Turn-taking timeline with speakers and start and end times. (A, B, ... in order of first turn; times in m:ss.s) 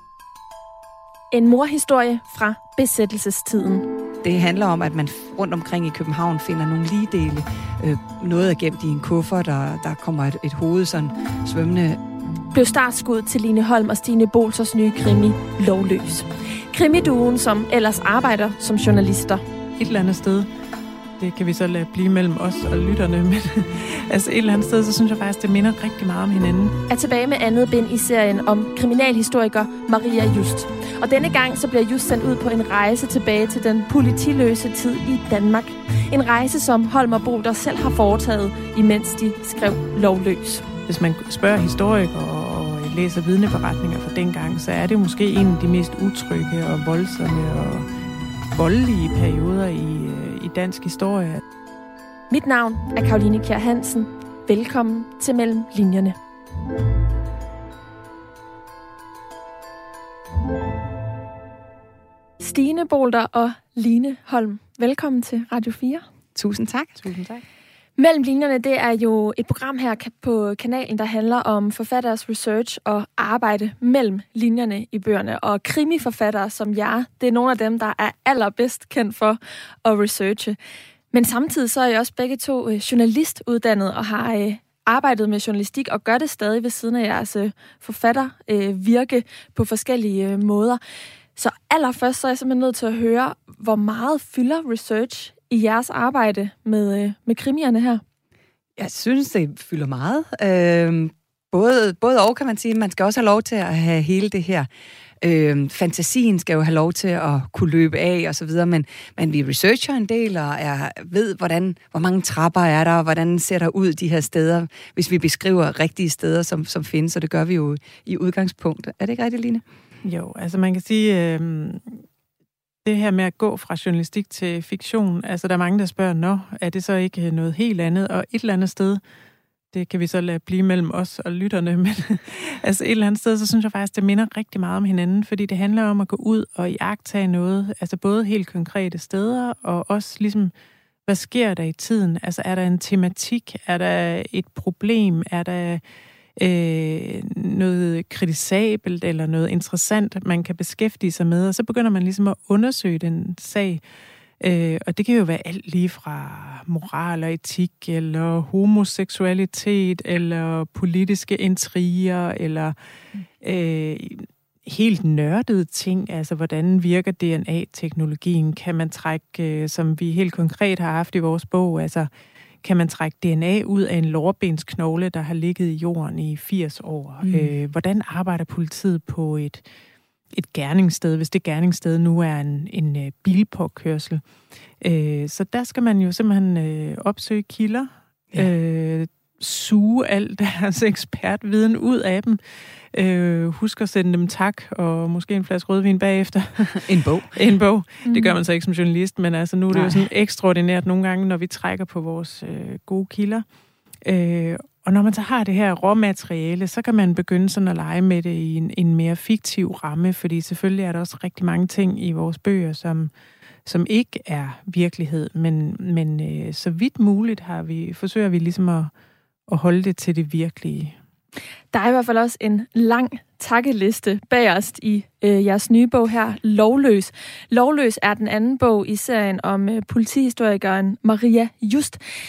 0:01.3-0:03.8 A
0:04.2-0:12.0 B
0:12.5-0:19.4 A
0:19.8-0:20.5 C
0:21.2-0:26.8 C
0:26.9-0:40.7 A
0:40.9-0:47.9 C
0:48.5-0:51.4 C
0:52.3-0:56.2 A
1:02.4-1:06.0 A
1:06.3-1:07.1 B
1:07.1-1:07.3 C
1:08.0-1:20.6 A
1:21.1-1:30.8 A
1:31.4-1:38.0 A
1:38.8-1:44.7 B
1:45.2-1:59.6 B
2:00.0-2:02.0 C
2:02.8-2:09.0 C
2:09.7-2:20.5 C
2:21.0-2:25.8 C
2:26.4-2:33.8 C
2:34.4-2:42.7 C
2:43.4-2:52.1 C
2:52.6-2:59.6 C
2:57.2-2:57.5 B
3:00.3-3:04.2 C
3:04.8-3:12.4 C
3:12.9-3:23.4 C
3:16.7-3:17.4 B
3:18.0-3:18.4 A
3:19.7-3:20.1 B
3:24.0-3:33.1 C
3:33.6-3:38.9 C
3:39.5-3:40.9 C
3:41.7-3:52.0 A